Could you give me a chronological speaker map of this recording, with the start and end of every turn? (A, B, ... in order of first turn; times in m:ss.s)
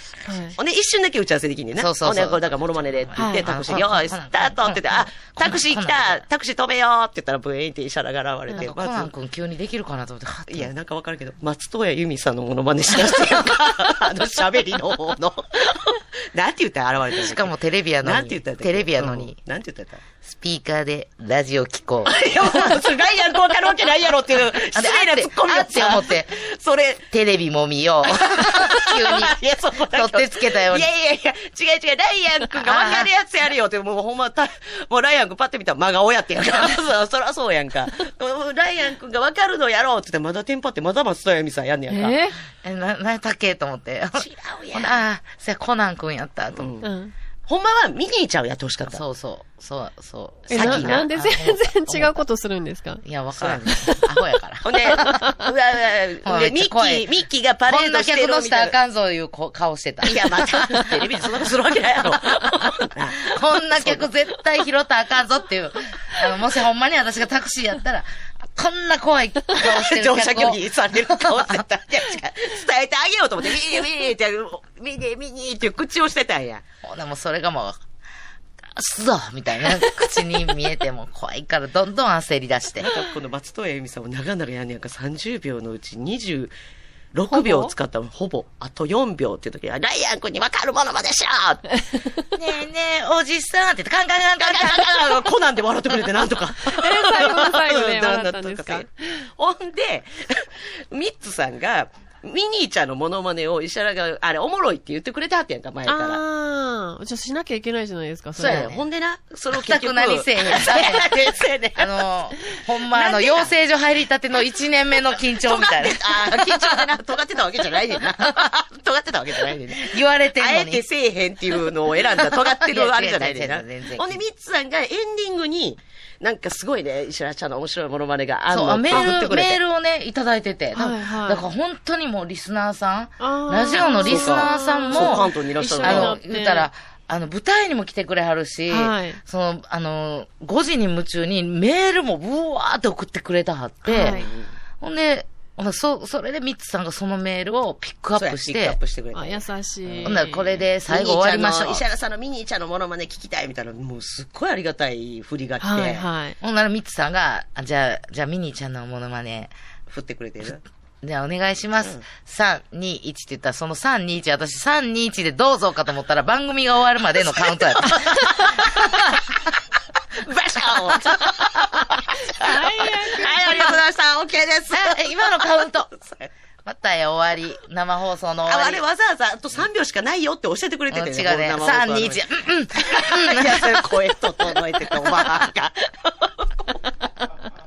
0:00.3-0:00.6 A
0:00.6-0:09.1 B
0:01.8-0:06.2 C
0:03.2-0:03.5 A
0:08.6-0:10.7 C
0:10.5-0:17.5 B
0:17.2-0:19.4 C
0:18.0-0:20.0 B
0:20.2-0:22.7 C
0:22.0-0:27.1 B
0:24.7-0:26.4 C
0:27.1-0:29.4 C
0:28.1-0:42.2 B
0:29.9-0:30.9 C
0:32.6-0:33.1 C
0:41.9-0:42.4 A
0:42.6-0:46.7 C
0:44.2-0:45.0 B
0:46.6-0:46.9 B
0:46.8-0:47.1 A
0:47.5-0:49.0 B
0:48.9-0:52.2 C
0:50.5-0:53.0 A
0:50.5-0:51.1 B
0:53.0-0:55.2 C
0:53.4-0:53.8 B
0:54.6-0:58.8 B
0:55.0-0:55.4 A
0:56.2-0:57.1 C
0:57.7-1:01.1 C
1:00.0-1:04.1 B
1:03.2-1:11.6 C
1:09.6-1:16.6 B
1:16.8-1:17.8 C
1:18.7-1:22.9 C
1:22.8-1:26.5 B
1:27.1-1:31.7 B
1:27.3-1:27.7 A
1:32.4-1:35.1 C
1:34.4-1:46.2 B
1:36.6-1:39.2 A
1:45.9-1:48.8 A
1:48.4-1:52.0 B
1:48.4-1:48.8 C
1:49.5-1:56.9 C
1:52.9-1:53.5 B
1:55.4-2:09.6 B
1:59.8-2:00.8 C
2:02.2-2:04.2 C
2:08.5-2:15.3 C
2:10.8-2:11.4 A
2:13.2-2:16.7 A
2:13.8-2:16.2 B
2:15.8-2:24.2 C
2:18.7-2:19.2 A
2:23.8-2:24.3 A
2:24.0-2:24.5 B
2:24.8-2:28.8 C
2:28.1-2:30.2 B
2:29.1-2:30.6 A
2:30.0-2:31.8 C
2:30.9-2:36.1 B
2:35.6-2:36.4 A
2:36.4-2:39.5 C
2:39.9-2:40.6 B
2:41.0-2:49.0 C
2:47.6-2:49.0 B
2:50.2-2:56.3 B
2:52.2-2:53.8 A
2:54.7-2:55.9 C
2:56.6-2:58.8 C
2:58.5-3:02.3 B
3:00.9-3:03.9 C
3:02.8-3:06.7 B